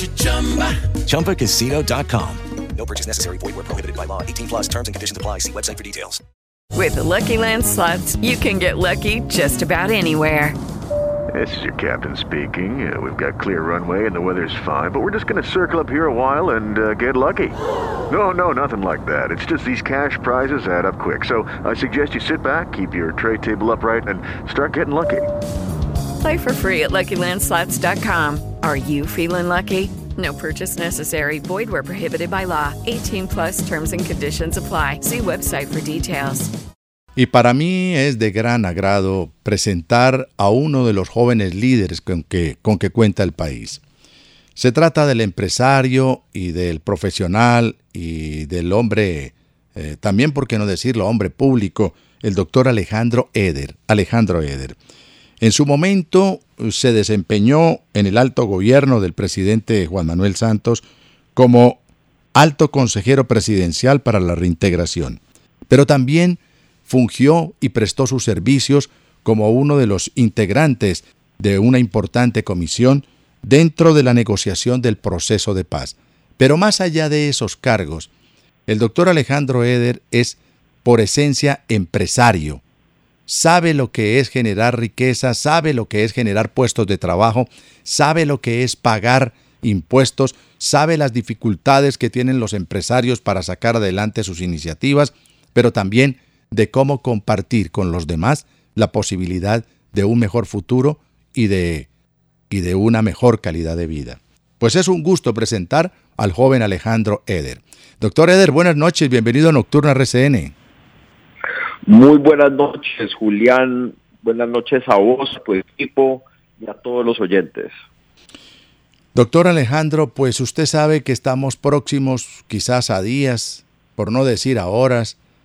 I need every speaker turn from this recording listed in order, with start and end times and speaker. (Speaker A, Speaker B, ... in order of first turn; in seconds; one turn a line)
Speaker A: 0.9-6.2
Speaker B: 6.7-10.6
Speaker C: 11.3-25.3
Speaker B: 26.2-36.5
Speaker D: 37.1-43.8
Speaker D: 44.5-54.8
Speaker D: 55.4-60.8
Speaker D: 61.4-61.8
Speaker D: 62.3-78.1
Speaker D: 78.7-82.6
Speaker D: 83.3-101.9
Speaker D: 102.5-110.5
Speaker E: 111.8-117.7
Speaker D: 119.1-125.2